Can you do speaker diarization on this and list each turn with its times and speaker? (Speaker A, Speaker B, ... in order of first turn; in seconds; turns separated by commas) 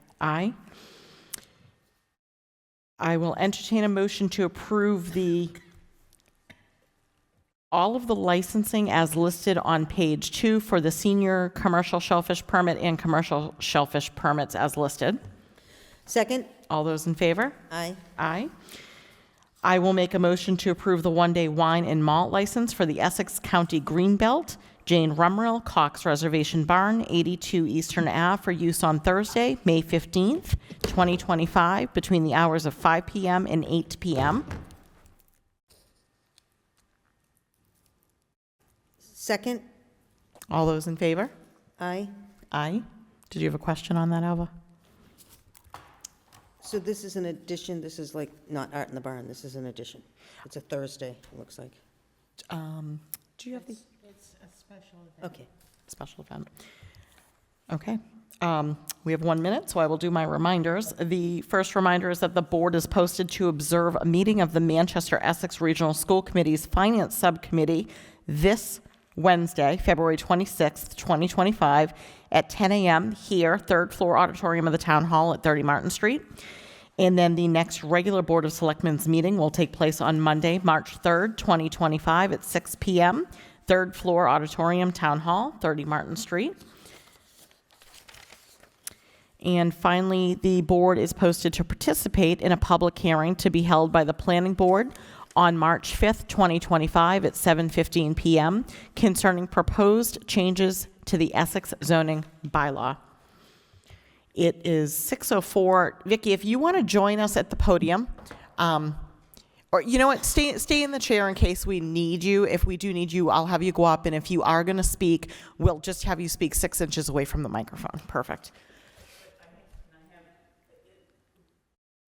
Speaker A: 0.2-0.5, Speaker A: 3.0-5.5, Speaker A: 7.7-15.2, Speaker B: 16.1-16.5, Speaker A: 16.7-17.6, Speaker B: 17.7-18.0, Speaker A: 18.2-18.5, Speaker A: 19.6-34.5, Speaker B: 39.1-39.6, Speaker A: 40.5-41.3, Speaker B: 41.8-42.1, Speaker A: 42.5-44.5, Speaker B: 46.6-51.8, Speaker A: 52.5-53.8, Speaker B: 55.2-55.5, Speaker A: 55.9-56.5, Speaker A: 57.7-76.2, Speaker A: 77.0-86.5, Speaker A: 89.4-103.0, Speaker A: 104.3-109.0, Speaker A: 109.7-118.5